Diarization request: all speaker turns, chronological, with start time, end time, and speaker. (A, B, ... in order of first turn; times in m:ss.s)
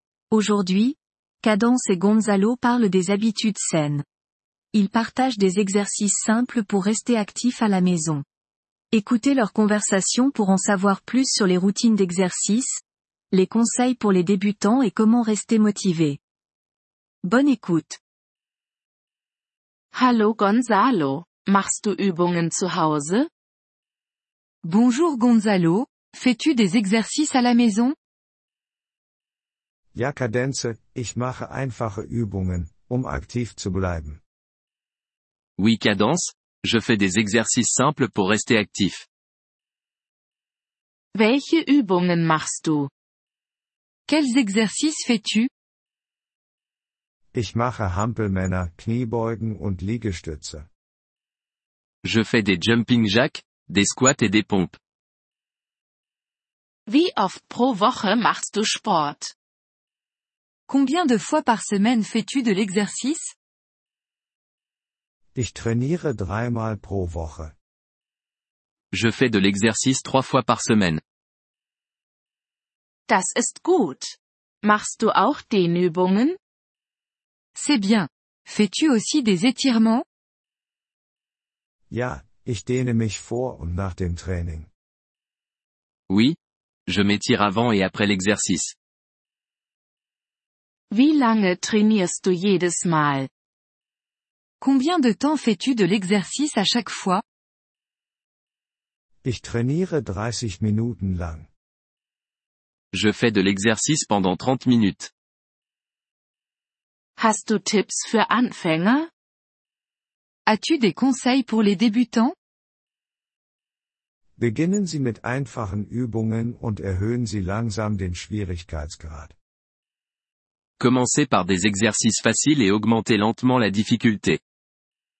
0:00.3-0:04.0 A
0:04.7-0:08.2 A
0:08.9-0:12.8 A
0:13.3-0:16.2 A
0:17.2-0:18.0 A
0:19.9-0:23.3 B
0:24.6-0:28.0 C
0:29.9-0:34.2 D
0:35.6-0:39.0 E
0:41.1-0:42.9 B
0:44.1-0:45.5 C
0:47.3-0:50.7 D
0:52.0-0:54.8 E
0:56.9-0:59.3 B
1:00.7-1:03.3 C
1:05.3-1:07.5 D
1:08.9-1:11.0 E
1:13.1-1:16.4 B
1:17.5-1:20.0 C
1:21.9-1:24.7 D
1:26.1-1:28.7 E
1:30.9-1:33.3 B
1:34.6-1:37.2 C
1:39.2-1:41.5 D
1:42.9-1:45.1 E
1:47.2-1:49.1 B
1:50.4-1:52.3 C
1:54.4-1:59.3 D
2:00.8-2:04.4 E